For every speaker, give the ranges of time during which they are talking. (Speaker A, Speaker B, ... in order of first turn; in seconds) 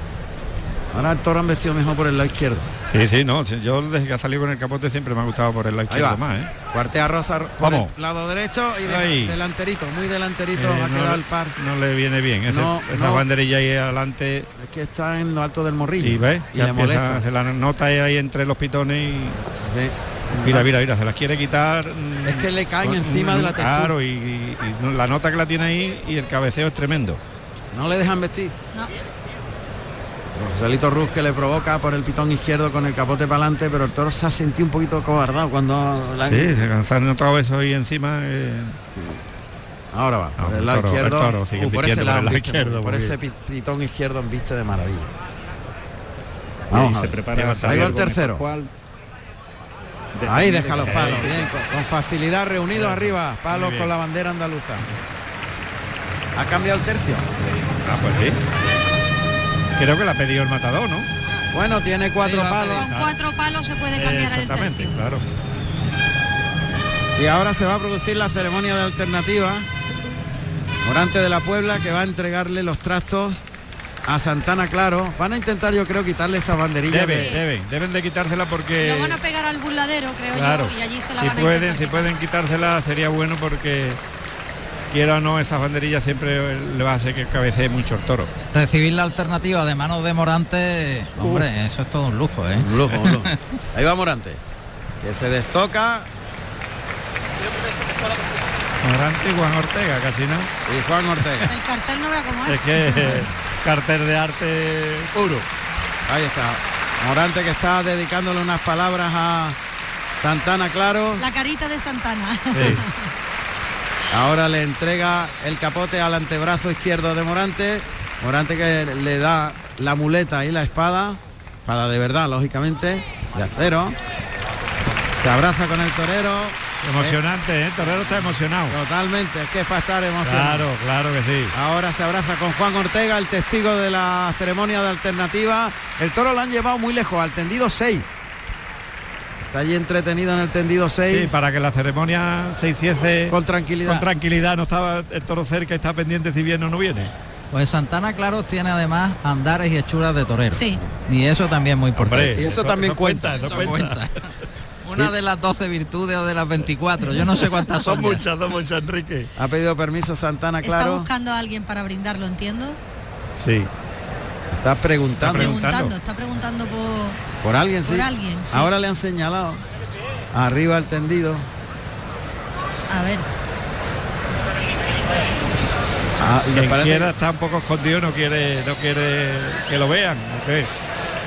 Speaker A: 0.9-2.7, 5.9-6.2, 6.7-11.5, 12.5-13.2, 14.6-17.2, 19.6-20.7, 22.2-23.9, 27.7-28.5, 30.3-36.6, 39.9-45.1, 46.7-48.4, 50.2-54.9, 56.3-57.3, 61.5-62.8, 67.2-69.7, 70.8-73.5, 74.0-77.3, 91.2-91.5, 92.6-94.4, 95.0-96.1, 100.7-101.5, 106.1-109.6, 110.2-111.3, 114.1-124.0, 125.2-127.2, 128.7-130.7, 131.5-138.1, 139.5-141.3, 143.3-144.1, 152.3-153.8, 159.4-161.1, 164.5-165.6, 167.4-169.6, 170.3-171.5, 176.2-177.1
Speaker B: 2.9-6.5, 7.6-7.9, 8.8-9.4, 10.5-14.5, 16.0-19.4, 20.4-27.2, 36.2-38.8, 40.4-43.2, 47.3-48.0, 50.8-51.3, 52.7-53.9, 57.4-58.4, 59.8-61.1, 62.2-63.1, 63.9-65.2, 76.9-79.2, 80.3-84.0, 84.9-88.3, 98.8-100.5, 102.5-105.5, 112.5-112.8, 126.8-128.8, 130.2-131.5, 141.1-147.1, 152.0-154.0, 157.2-159.3, 163.4-163.7, 165.2-165.9, 176.5-180.7
Speaker C: 46.7-48.7, 50.1-51.5
Speaker D: 62.6-64.9, 77.1-77.4, 78.8-82.1, 101.5-103.3, 111.2-113.0, 150.5-150.8, 160.6-162.8, 165.3-167.2, 167.8-168.7, 172.9-173.3
Speaker E: 88.5-93.3, 147.5-152.5, 153.4-154.3, 154.8-158.2